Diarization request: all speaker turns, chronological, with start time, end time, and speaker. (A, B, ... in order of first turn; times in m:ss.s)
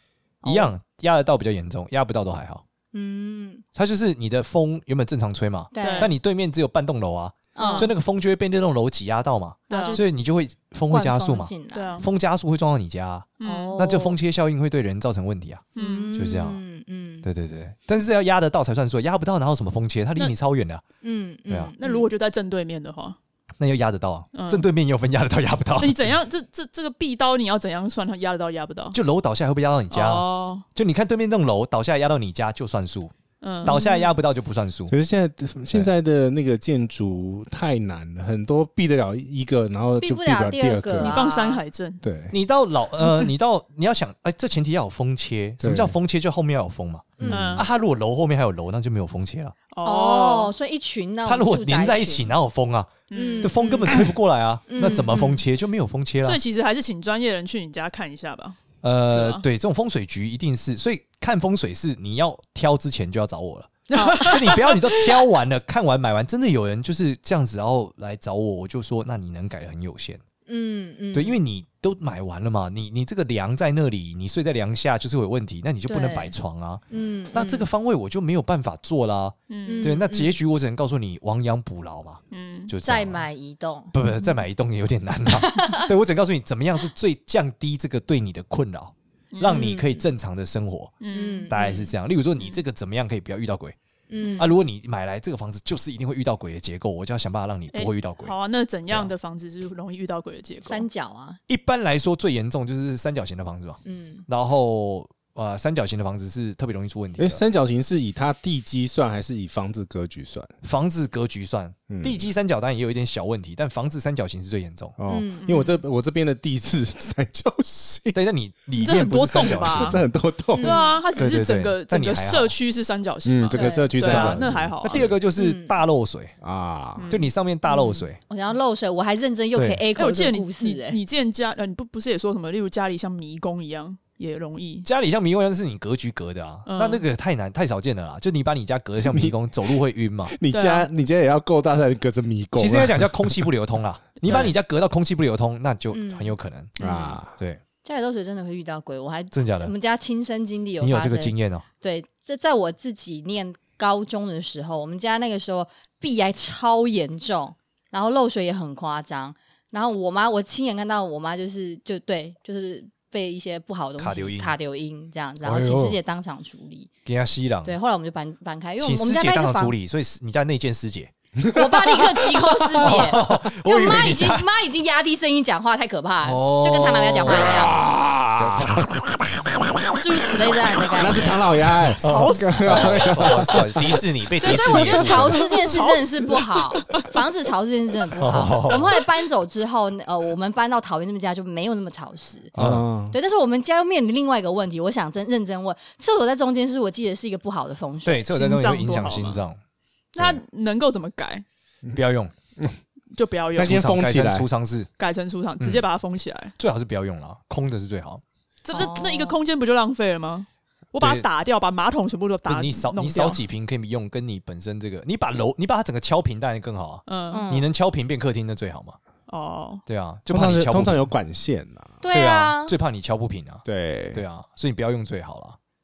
0:00.4-0:00.7 A
0:00.4-0:02.6 B
0:02.9-0:03.6 A
0:03.8-0:16.6 B
0:05.7-0:06.1 A
0:05.8-0:06.1 C
0:07.6-0:07.9 A
0:07.6-0:07.9 C
0:09.7-0:10.0 C
0:09.7-0:10.1 A
0:10.9-0:12.0 A
0:11.7-0:12.1 C
0:13.4-0:13.8 C
0:13.4-0:14.2 A
0:15.8-0:16.1 C
0:15.8-0:17.3 A
0:17.2-0:20.8 B
0:21.0-0:22.1 A
0:21.5-0:21.7 B
0:21.8-0:23.2 C
0:23.6-0:26.1 B
0:24.3-0:24.7 C
0:25.8-0:29.0 C
0:28.9-0:34.9 B
0:29.9-0:30.6 C
0:33.4-0:33.8 C
0:33.6-0:34.1 A
0:34.9-0:41.2 D
0:40.0-0:41.6 A
0:41.0-0:42.0 C
0:42.0-0:42.4 D
0:42.3-0:49.6 B
0:45.6-0:46.0 D
0:47.2-0:47.6 D
0:47.3-0:47.7 C
0:49.7-0:50.5 C
0:49.8-0:52.3 A
0:51.3-0:56.4 B
0:53.1-0:54.1 C
0:53.1-0:54.1 A
0:54.7-0:55.4 A
0:56.2-0:58.6 C
0:58.8-1:10.2 B
0:59.1-0:59.4 C
1:03.9-1:05.0 C
1:04.0-1:04.6 A
1:10.5-1:11.4 A
1:11.1-1:23.3 B
1:15.9-1:16.4 A
1:16.9-1:17.7 A
1:19.5-1:19.9 C
1:19.6-1:20.4 A
1:22.3-1:22.7 C
1:22.8-1:24.3 A
1:23.9-1:31.0 B
1:25.3-1:25.9 A
1:29.3-1:29.6 C
1:29.4-1:30.0 A
1:31.0-1:31.5 C
1:31.1-1:31.9 A
1:31.5-1:33.8 B
1:34.1-1:34.5 A
1:34.2-1:34.5 C
1:34.4-1:38.3 B
1:37.7-1:40.8 C
1:40.6-1:41.4 A
1:41.5-1:47.4 B
1:43.8-1:44.2 A
1:47.2-1:50.5 D
1:50.6-1:55.0 B
1:51.9-1:52.2 D
1:55.0-1:58.2 D
1:55.1-1:55.8 A
1:58.1-2:00.0 B
1:58.8-2:00.0 C
1:59.4-2:00.8 D
2:00.6-2:01.0 A
2:00.6-2:05.1 C
2:01.2-2:02.5 B
2:03.3-2:05.2 D
2:03.5-2:04.0 A
2:04.0-2:06.4 B
2:05.4-2:05.8 A
2:06.4-2:07.1 D
2:07.0-2:07.3 C
2:07.1-2:08.2 B
2:07.7-2:11.0 A
2:09.5-2:09.8 B
2:10.0-2:14.9 C
2:14.8-2:20.4 B
2:16.7-2:17.0 C
2:19.0-2:23.5 D
2:20.5-2:20.9 C
2:22.6-2:26.7 B
2:24.2-2:24.5 D
2:25.9-2:26.3 A
2:26.8-2:27.2 C
2:26.8-2:27.4 D
2:27.4-2:27.6 B
2:27.8-2:46.9 A
2:29.3-2:29.7 B
2:30.8-2:31.6 B
2:44.0-2:44.6 B
2:45.4-2:46.0 B
2:47.1-2:47.8 B
2:47.6-2:49.8 A
2:48.8-2:51.1 B
2:51.4-2:53.3 D
2:51.5-2:57.8 A
2:52.7-2:54.5 B
2:56.2-2:57.8 B
2:57.3-3:00.2 D
2:58.4-2:58.9 B
3:00.0-3:01.4 A
3:00.9-3:04.0 D
3:02.0-3:03.3 C
3:02.0-3:05.8 B
3:04.4-3:12.5 A
3:04.6-3:05.0 D
3:05.6-3:07.1 C
3:08.2-3:08.9 B
3:12.6-3:12.9 B
3:12.6-3:13.2 D
3:13.1-3:18.2 A
3:18.0-3:19.6 B
3:18.3-3:19.4 C
3:20.2-3:20.4 B
3:20.2-3:21.4 C
3:21.9-3:22.3 B
3:23.1-3:23.8 C
3:23.6-3:24.5 D
3:23.6-3:24.9 B
3:25.0-3:26.5 C
3:26.6-3:28.2 B
3:28.6-3:33.4 C
3:28.7-3:29.4 A
3:31.0-3:31.3 B
3:32.5-3:39.0 B
3:37.1-3:37.4 C
3:37.3-3:37.7 A
3:39.3-3:39.8 C
3:39.9-3:41.1 B
3:40.3-3:42.0 D
3:42.0-3:42.8 A
3:42.1-3:45.6 B
3:43.6-3:44.2 D